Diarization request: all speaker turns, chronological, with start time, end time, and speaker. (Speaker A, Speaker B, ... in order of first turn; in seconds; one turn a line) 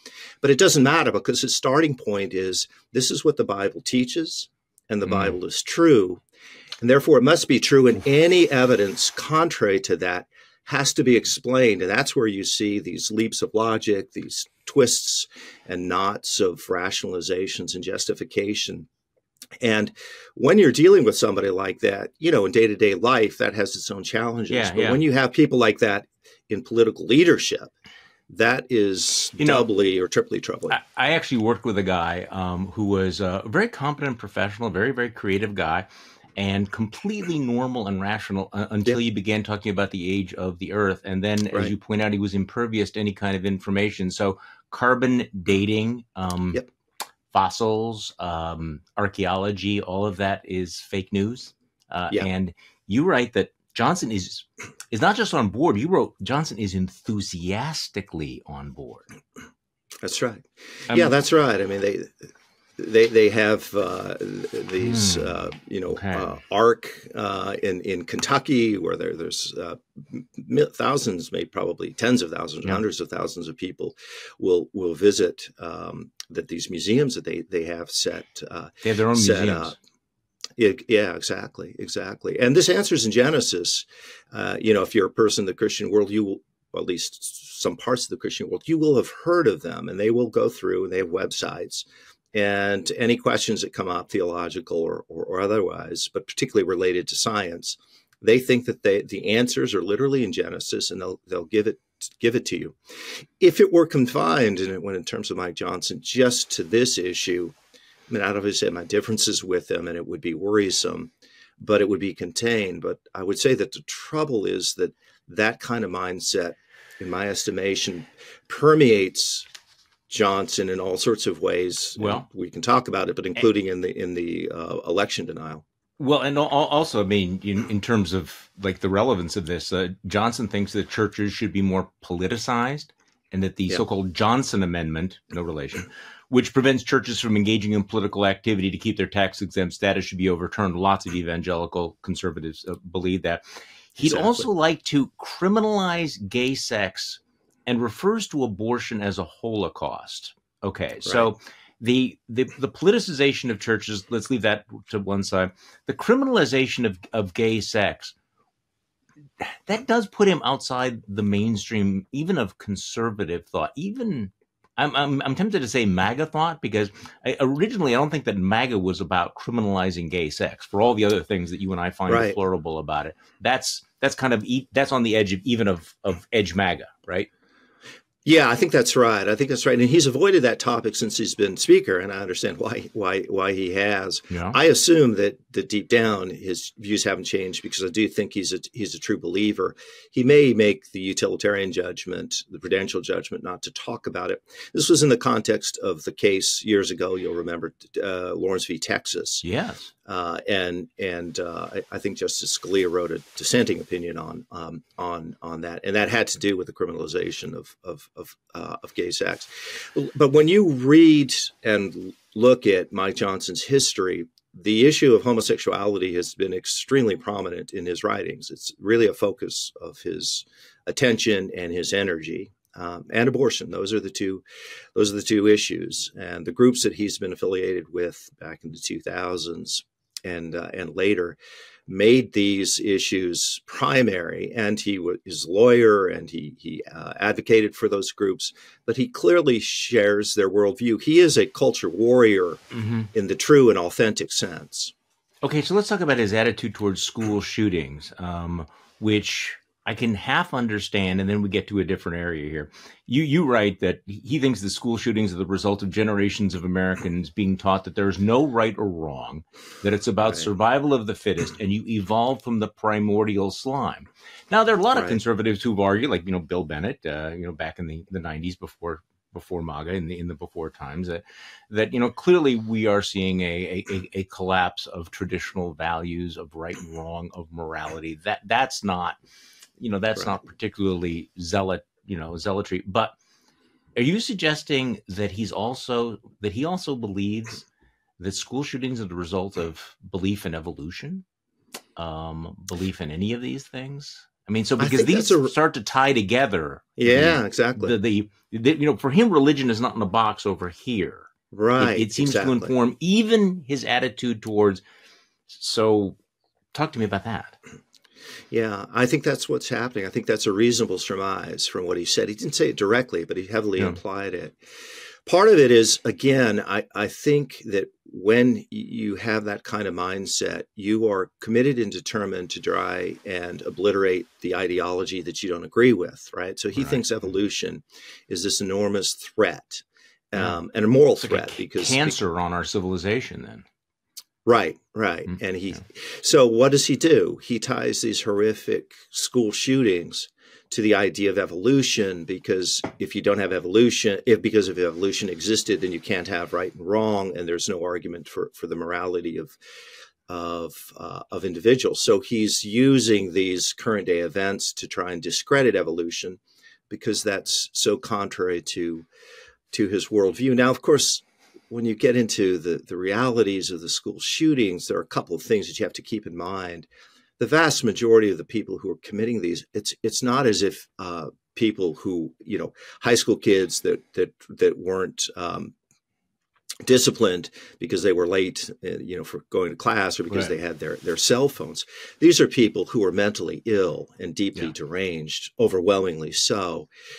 Speaker A: 0.4-6.2
Speaker B: 5.1-5.3
Speaker A: 6.8-18.9
Speaker A: 19.6-27.7
Speaker B: 24.5-25.0
Speaker A: 28.3-30.8
Speaker B: 29.4-29.7
Speaker B: 30.7-46.6
Speaker B: 47.3-59.1
Speaker A: 60.0-62.2
Speaker A: 62.8-79.8
Speaker B: 64.8-65.4
Speaker B: 65.9-66.3
Speaker B: 78.8-79.8
Speaker A: 80.6-107.6
Speaker A: 108.1-119.5
Speaker A: 120.1-125.6
Speaker B: 122.0-122.3
Speaker B: 126.0-143.4
Speaker B: 143.9-158.1
Speaker A: 144.0-144.5
Speaker B: 159.4-177.3
Speaker A: 172.1-172.4
Speaker A: 178.2-199.4
Speaker B: 184.3-184.6
Speaker B: 199.4-199.9
Speaker A: 200.1-224.4
Speaker A: 224.9-242.6
Speaker B: 242.7-243.1
Speaker A: 243.1-244.9
Speaker B: 245.4-279.2
Speaker A: 260.2-260.5
Speaker A: 264.9-265.2
Speaker B: 279.8-283.2
Speaker B: 283.9-287.7
Speaker B: 288.2-291.2
Speaker B: 291.9-304.8
Speaker A: 294.8-295.5
Speaker A: 297.0-297.9
Speaker A: 301.5-302.7
Speaker B: 305.5-306.2
Speaker B: 306.7-307.6
Speaker A: 308.5-314.6
Speaker A: 315.3-332.1
Speaker B: 331.2-333.6
Speaker A: 334.4-349.6
Speaker A: 350.3-359.1
Speaker A: 359.7-366.9
Speaker A: 367.4-375.7
Speaker A: 376.8-386.9